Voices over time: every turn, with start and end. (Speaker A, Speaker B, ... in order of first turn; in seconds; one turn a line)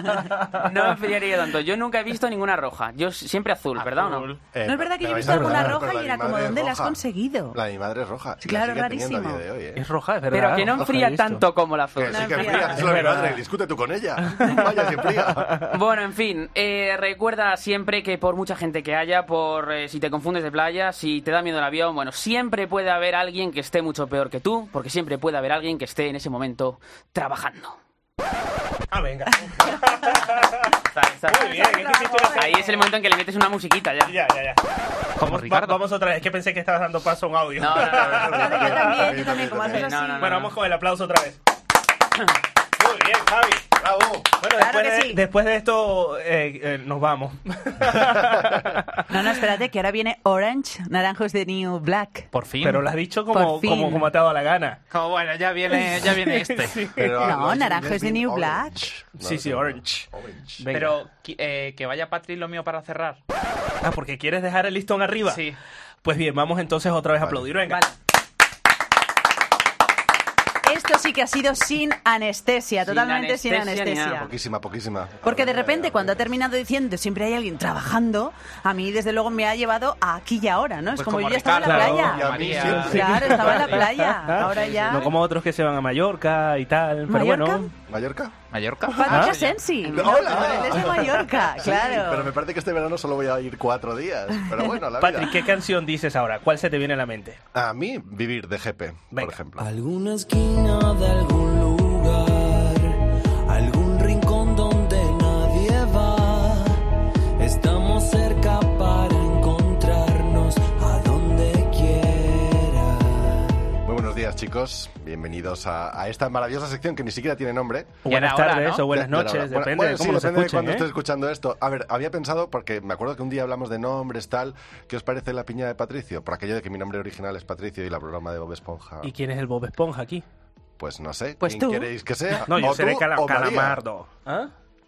Speaker A: 0.6-4.3
Speaker B: 4.4-7.0
Speaker C: 4.6-7.6
Speaker D: 5.2-5.7
Speaker B: 7.5-9.8
Speaker C: 8.4-9.4
Speaker D: 9.8-11.4
Speaker A: 10.3-12.7
Speaker B: 11.9-15.5
Speaker C: 12.1-12.8
Speaker D: 12.8-13.4
Speaker D: 14.3-14.6
Speaker D: 15.4-15.7
Speaker A: 15.7-27.8
Speaker D: 28.9-30.6
Speaker A: 30.9-31.6
Speaker D: 31.3-32.9
Speaker C: 31.3-32.5
Speaker A: 32.3-34.1
Speaker D: 34.0-34.6
Speaker E: 35.2-35.8
Speaker D: 35.2-38.8
Speaker A: 37.6-38.7
Speaker B: 37.9-39.9
Speaker C: 38.3-40.3
Speaker A: 39.6-40.5
Speaker D: 40.2-41.4
Speaker D: 42.8-43.6
Speaker B: 43.8-44.3
Speaker D: 44.4-49.0
Speaker C: 44.6-45.2
Speaker B: 47.9-48.6
Speaker C: 49.1-52.3
Speaker E: 52.3-52.9
Speaker D: 52.6-54.8
Speaker C: 53.3-54.1
Speaker E: 54.9-56.8
Speaker D: 56.0-57.4
Speaker B: 56.9-60.6
Speaker C: 57.2-58.9
Speaker D: 59.2-60.0
Speaker D: 60.6-61.0
Speaker E: 60.7-63.2
Speaker D: 63.8-65.4
Speaker E: 65.2-65.6
Speaker D: 66.0-67.8
Speaker B: 67.2-67.5
Speaker C: 70.6-74.3
Speaker A: 72.8-74.2
Speaker B: 74.1-76.2
Speaker C: 75.2-85.1
Speaker E: 80.9-83.8
Speaker D: 81.6-87.7
Speaker B: 82.0-83.5
Speaker E: 84.5-84.9
Speaker C: 87.1-87.7
Speaker B: 87.9-88.3
Speaker E: 88.5-90.1
Speaker C: 88.9-92.3
Speaker D: 89.1-89.4
Speaker B: 89.9-95.3
Speaker D: 95.0-97.4
Speaker B: 97.5-99.7
Speaker F: 99.6-106.8
Speaker F: 107.4-113.7
Speaker B: 113.8-118.0
Speaker E: 118.0-118.8
Speaker D: 118.0-120.8
Speaker B: 118.9-129.1
Speaker D: 129.0-130.2
Speaker B: 130.8-133.8
Speaker C: 131.4-131.9
Speaker D: 132.5-134.5